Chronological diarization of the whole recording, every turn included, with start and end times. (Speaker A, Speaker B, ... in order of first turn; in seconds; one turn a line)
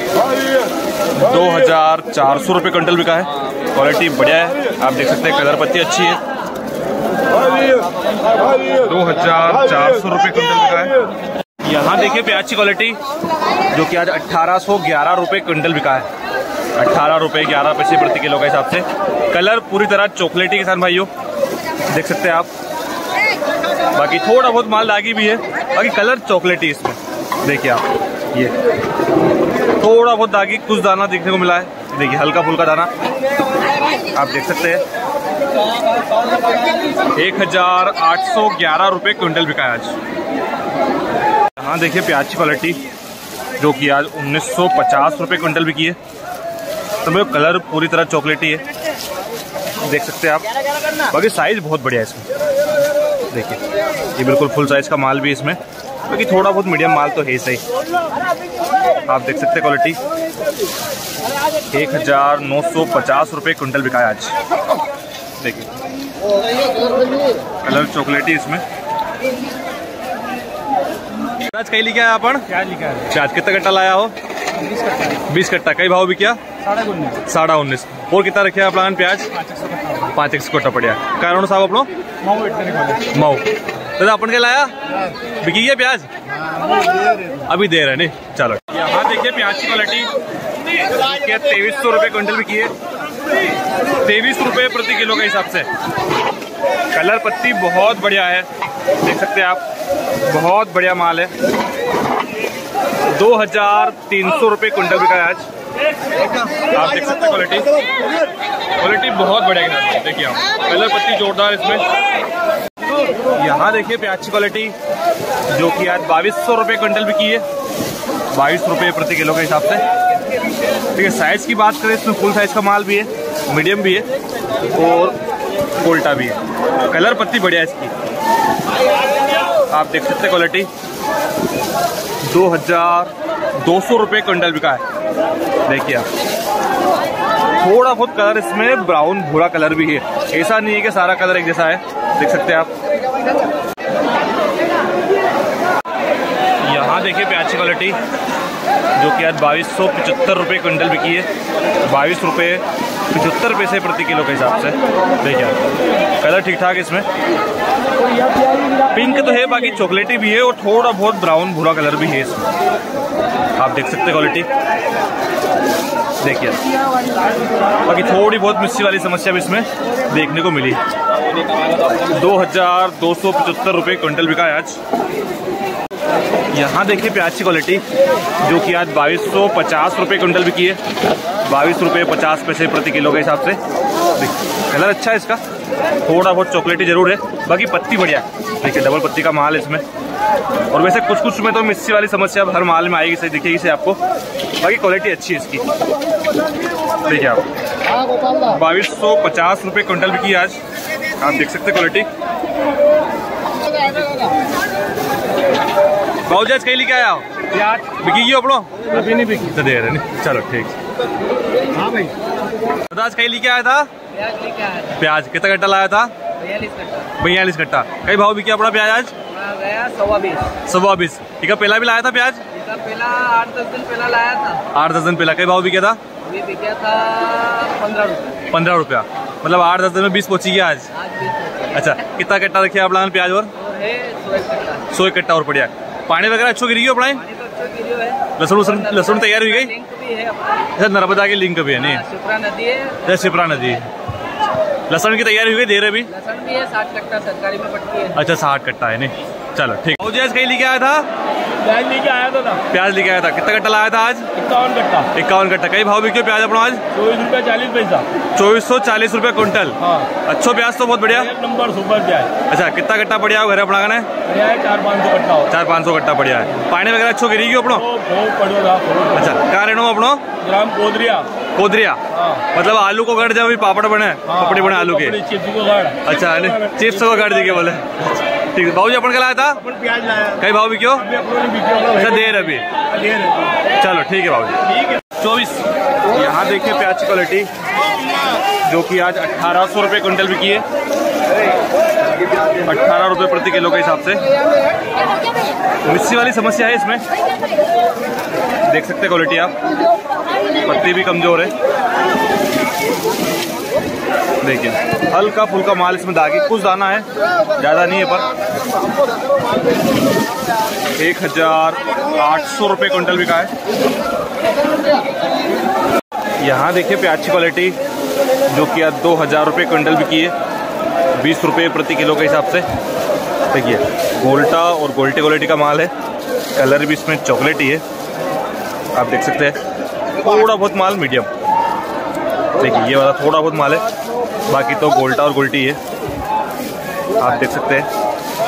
Speaker A: 1.2-6.2
Speaker A: 8.8-10.9
Speaker A: 11.6-13.0
Speaker A: 13.7-16.1
Speaker A: 16.8-21.1
Speaker A: 21.9-22.5
Speaker A: 23.9-28.5
Speaker A: 29.8-32.9
Speaker A: 34.1-34.8
Speaker A: 37.1-40.0
Speaker A: 41.6-42.8
Speaker A: 43.6-46.0
Speaker A: 47.0-48.6
Speaker A: 49.8-50.5
Speaker A: 51.1-52.2
Speaker A: 53.3-53.6
Speaker A: 54.1-57.6
Speaker A: 59.1-60.0
Speaker A: 61.7-64.3
Speaker A: 65.4-65.7
Speaker A: 67.6-68.6
Speaker A: 71.4-74.1
Speaker A: 75.1-76.4
Speaker A: 77.1-79.3
Speaker A: 80.0-81.9
Speaker B: 82.4-82.9
Speaker A: 83.1-84.7
Speaker A: 85.4-86.1
Speaker A: 87.5-90.1
Speaker A: 90.8-92.7
Speaker A: 94.0-95.7
Speaker A: 96.9-98.5
Speaker A: 99.0-99.6
Speaker A: 100.3-101.3
Speaker A: 103.1-105.4
Speaker A: 106.6-107.7
Speaker A: 108.8-111.8
Speaker A: 113.3-114.8
Speaker A: 115.5-117.4
Speaker A: 118.3-119.8
Speaker A: 120.9-124.1
Speaker A: 124.7-125.2
Speaker A: 125.8-127.9
Speaker A: 129.7-130.7
Speaker A: 132.2-134.8
Speaker A: 135.7-136.1
Speaker A: 137.6-142.7
Speaker A: 146.6-148.0
Speaker A: 149.0-151.3
Speaker A: 151.8-157.1
Speaker A: 158.9-162.5
Speaker A: 163.6-164.4
Speaker A: 166.2-166.6
Speaker A: 167.8-170.8
Speaker A: 172.1-174.8
Speaker A: 176.5-177.8
Speaker A: 178.4-180.8
Speaker A: 181.4-183.6
Speaker A: 184.2-185.4
Speaker A: 186.0-189.8
Speaker A: 190.7-194.0
Speaker A: 194.6-195.7
Speaker A: 197.0-197.4
Speaker A: 198.4-200.6
Speaker A: 201.2-202.1
Speaker A: 206.3-210.8
Speaker A: 212.9-213.9
Speaker C: 214.1-215.0
Speaker A: 214.9-216.1
Speaker C: 216.4-217.1
Speaker A: 217.1-219.1
Speaker C: 219.2-220.5
Speaker A: 220.7-222.4
Speaker C: 222.5-224.6
Speaker A: 224.7-226.0
Speaker C: 226.2-228.4
Speaker A: 228.5-230.9
Speaker C: 231.0-231.7
Speaker A: 231.7-233.5
Speaker C: 233.6-234.8
Speaker A: 234.9-237.2
Speaker C: 237.2-240.6
Speaker A: 238.3-239.7
Speaker A: 240.8-242.0
Speaker C: 241.9-243.0
Speaker A: 243.0-243.9
Speaker A: 244.9-246.1
Speaker C: 246.1-248.2
Speaker A: 248.1-251.1
Speaker B: 251.6-252.6
Speaker A: 252.7-254.3
Speaker B: 254.3-255.1
Speaker A: 255.1-256.8
Speaker B: 256.9-258.1
Speaker A: 258.3-261.3
Speaker B: 261.2-262.3
Speaker A: 262.5-264.1
Speaker B: 264.2-265.5
Speaker A: 265.5-267.9
Speaker B: 267.8-269.3
Speaker A: 269.1-270.2
Speaker B: 270.4-271.3
Speaker A: 271.5-272.0
Speaker B: 272.1-272.4
Speaker A: 272.5-275.2
Speaker B: 274.3-277.2
Speaker A: 276.0-279.7
Speaker A: 280.3-281.2
Speaker B: 281.1-282.0
Speaker A: 281.9-282.6
Speaker A: 283.8-284.6
Speaker A: 285.1-287.5
Speaker A: 288.6-290.6
Speaker A: 292.6-294.2
Speaker A: 295.9-297.0
Speaker A: 298.7-299.5
Speaker A: 300.6-301.5
Speaker A: 304.4-308.3
Speaker A: 311.0-313.5
Speaker A: 316.4-317.8
Speaker A: 318.5-320.3
Speaker A: 321.2-322.6
Speaker A: 323.5-325.9
Speaker A: 326.5-327.8
Speaker A: 328.9-329.6
Speaker A: 330.2-331.3
Speaker A: 332.6-333.9
Speaker A: 334.4-335.8
Speaker A: 337.2-337.9